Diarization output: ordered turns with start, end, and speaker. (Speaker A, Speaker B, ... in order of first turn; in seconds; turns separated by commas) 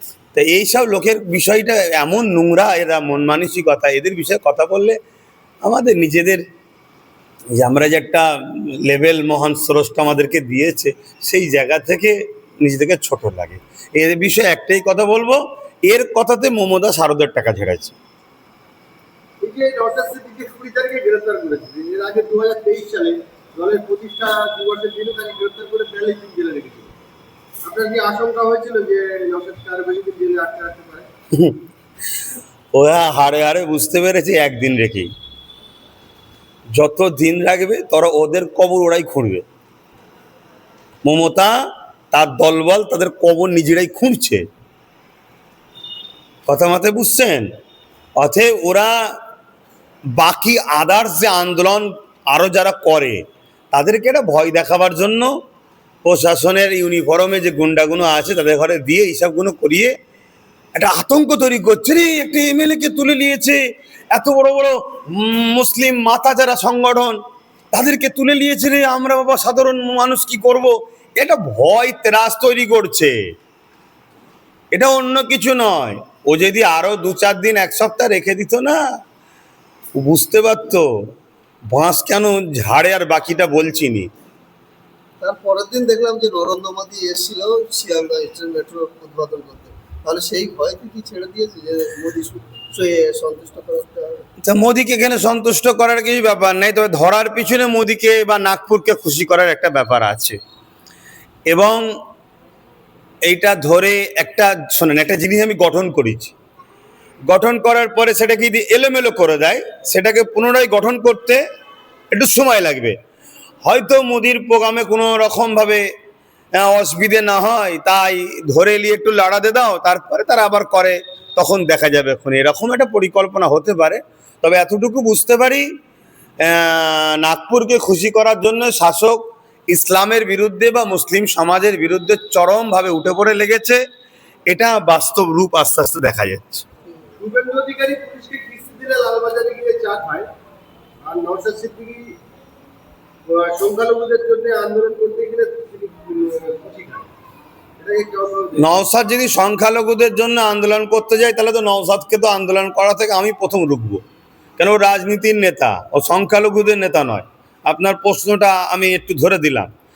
Speaker A: 0.3-5.0, Speaker A: 5.6-6.4, Speaker A: 7.6-17.9, Speaker B: 19.4-26.9, Speaker B: 27.6-31.1, Speaker A: 31.3-31.6, Speaker A: 32.7-35.1, Speaker A: 36.7-39.4, Speaker A: 41.0-41.5, Speaker A: 42.1-44.5, Speaker A: 46.5-47.5, Speaker A: 48.1-49.2, Speaker A: 50.1-55.3, Speaker A: 56.0-59.9, Speaker A: 60.8-63.6, Speaker A: 64.1-67.2, Speaker A: 67.7-73.2, Speaker A: 74.7-78.8, Speaker A: 79.9-81.1, Speaker A: 81.7-84.1, Speaker C: 85.2-94.2, Speaker A: 94.4-100.4, Speaker A: 101.5-101.8, Speaker A: 103.2-106.3, Speaker A: 107.2-111.4, Speaker A: 112.1-113.0, Speaker A: 113.6-115.8, Speaker A: 116.5-125.7, Speaker A: 126.4-133.8, Speaker A: 134.5-136.7, Speaker B: 137.2-140.3, Speaker B: 141.0-142.2, Speaker B: 143.3-147.1, Speaker B: 147.8-148.8, Speaker A: 148.6-154.0, Speaker A: 154.6-159.7